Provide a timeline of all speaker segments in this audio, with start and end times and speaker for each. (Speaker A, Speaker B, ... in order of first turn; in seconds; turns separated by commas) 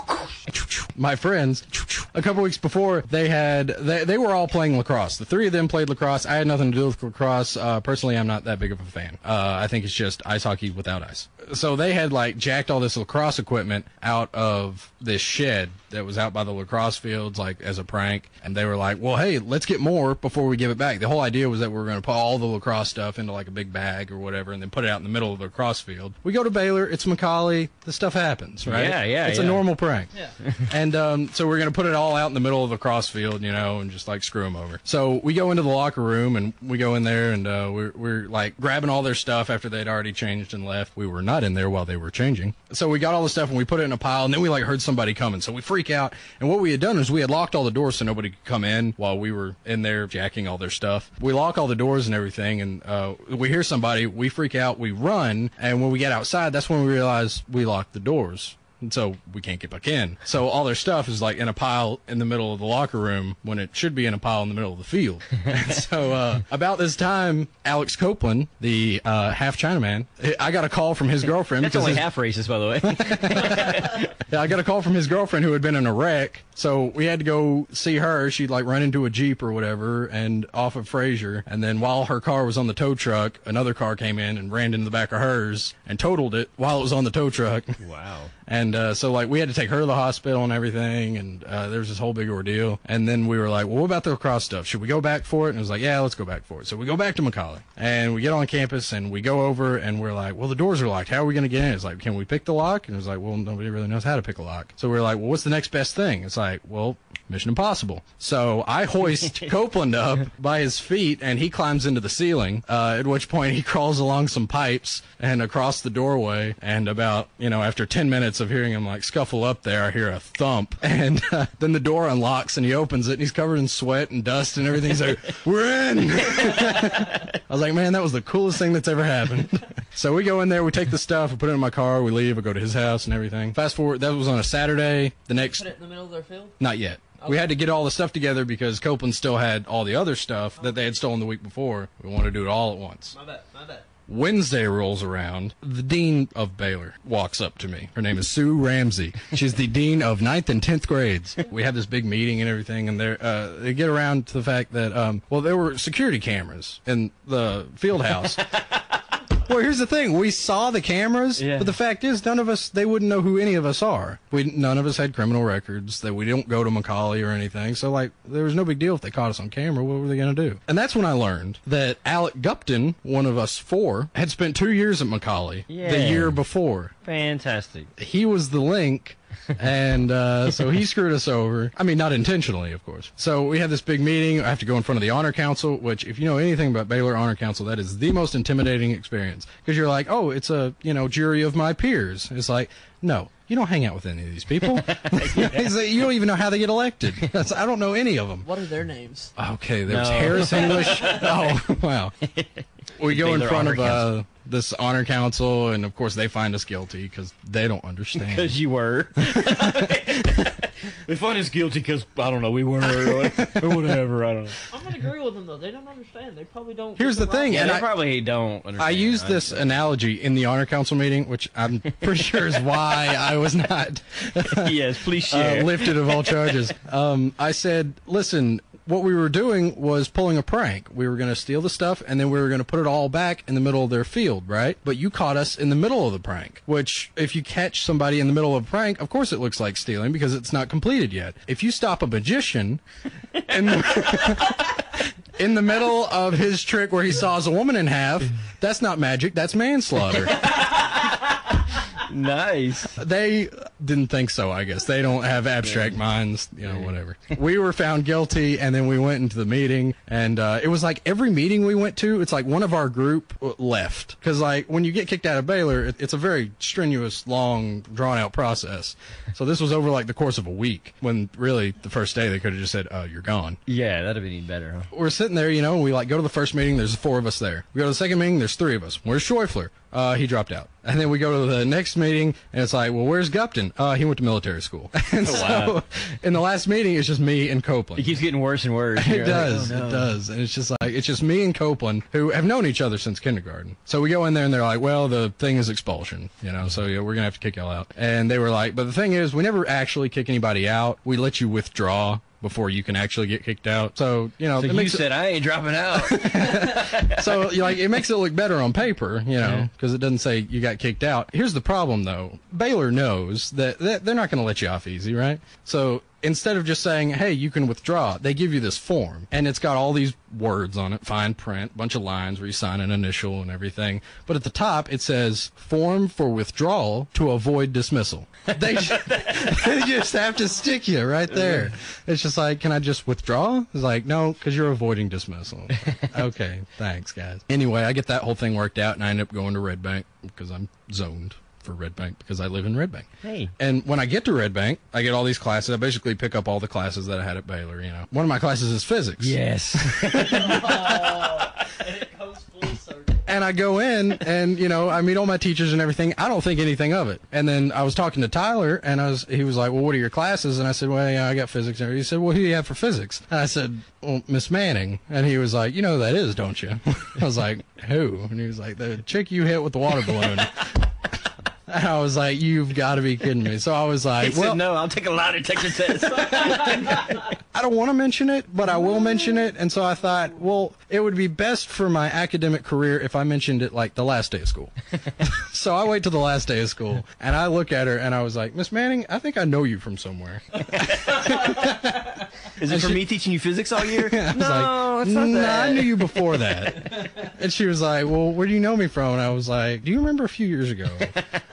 Speaker A: 0.3-30.1, Speaker B: 28.7-29.7, Speaker A: 30.7-72.0, Speaker B: 71.6-74.1, Speaker A: 72.8-87.8, Speaker B: 87.8-88.3, Speaker A: 88.5-135.7, Speaker C: 135.4-136.6, Speaker A: 136.6-143.1, Speaker C: 137.2-137.6, Speaker C: 140.6-140.9, Speaker C: 143.1-143.9, Speaker A: 144.1-158.4, Speaker A: 159.4-176.9, Speaker B: 161.4-161.7, Speaker B: 175.7-176.4, Speaker B: 177.1-177.9, Speaker A: 178.0-198.5, Speaker B: 194.7-195.7, Speaker C: 198.4-199.3, Speaker A: 199.4-202.2, Speaker B: 199.9-201.6, Speaker B: 202.3-204.1, Speaker A: 203.0-208.6, Speaker B: 208.2-214.6, Speaker A: 209.2-210.0, Speaker A: 212.8-214.0, Speaker C: 214.7-217.8, Speaker A: 217.0-217.9, Speaker B: 217.5-219.6, Speaker A: 218.8-242.8, Speaker B: 224.5-226.5, Speaker A: 243.4-244.8, Speaker A: 245.4-250.5, Speaker B: 250.3-251.2, Speaker B: 251.9-253.0, Speaker A: 253.0-273.6, Speaker B: 273.7-274.9, Speaker A: 274.9-288.2, Speaker B: 285.2-285.8, Speaker B: 288.0-290.1, Speaker A: 288.9-305.1, Speaker B: 304.6-307.5, Speaker A: 305.9-351.5, Speaker B: 309.4-309.7, Speaker B: 329.0-329.4, Speaker B: 331.4-331.7, Speaker B: 343.2-343.5, Speaker B: 349.2-350.5, Speaker C: 350.2-353.3, Speaker A: 353.3-370.7, Speaker A: 371.7-374.6, Speaker B: 374.2-377.2, Speaker A: 376.2-393.0, Speaker B: 390.8-391.4, Speaker B: 392.6-396.3, Speaker A: 393.8-401.1